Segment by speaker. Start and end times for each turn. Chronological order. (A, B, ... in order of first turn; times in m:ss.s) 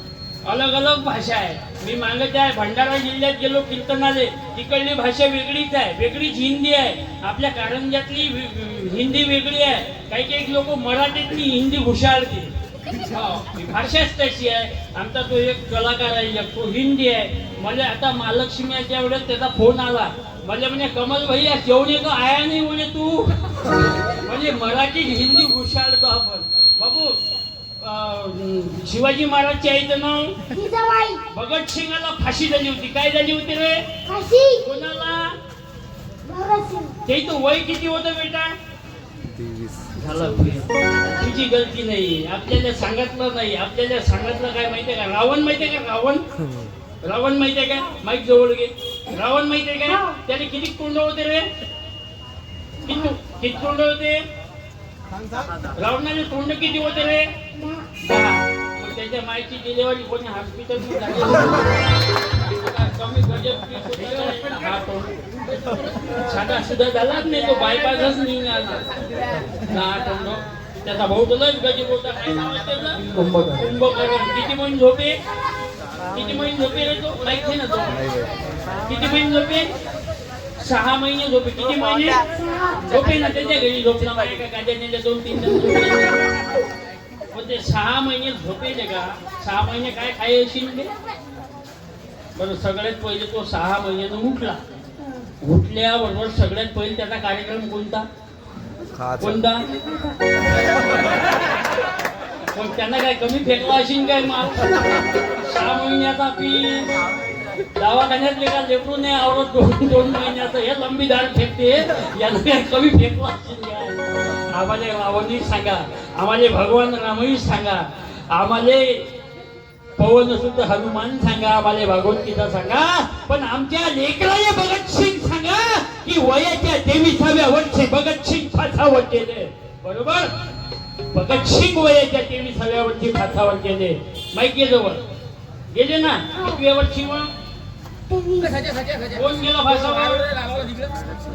0:00.4-0:27.2 A
0:27.8-0:30.4 A
0:30.5-0:31.2 B
0:31.3-0:33.9 A
0:34.0-0:34.7 B
0:34.6-0:35.4 A
0:36.2-0:37.0 B
0:37.0-0:38.5 A
0:39.9-0:46.2 A
0:47.0-0:51.5 A
0:52.8-0:54.2 A
0:55.7-0:57.3 A
0:58.0-1:01.8 A
1:02.4-1:05.1 A
1:06.1-1:08.8 A
1:09.7-1:15.2 A
1:16.1-1:18.1 A
1:18.8-1:19.7 A
1:20.6-1:26.3 A
1:27.3-1:30.9 A
1:32.4-1:34.6 A
1:35.4-1:38.1 A
1:39.2-1:39.7 A
1:42.5-1:46.9 A
1:47.7-1:59.1 A
2:00.0-2:10.3 A
2:11.1-2:15.0 A
2:15.7-2:17.3 A
2:18.1-2:18.7 B
2:19.1-2:20.4 A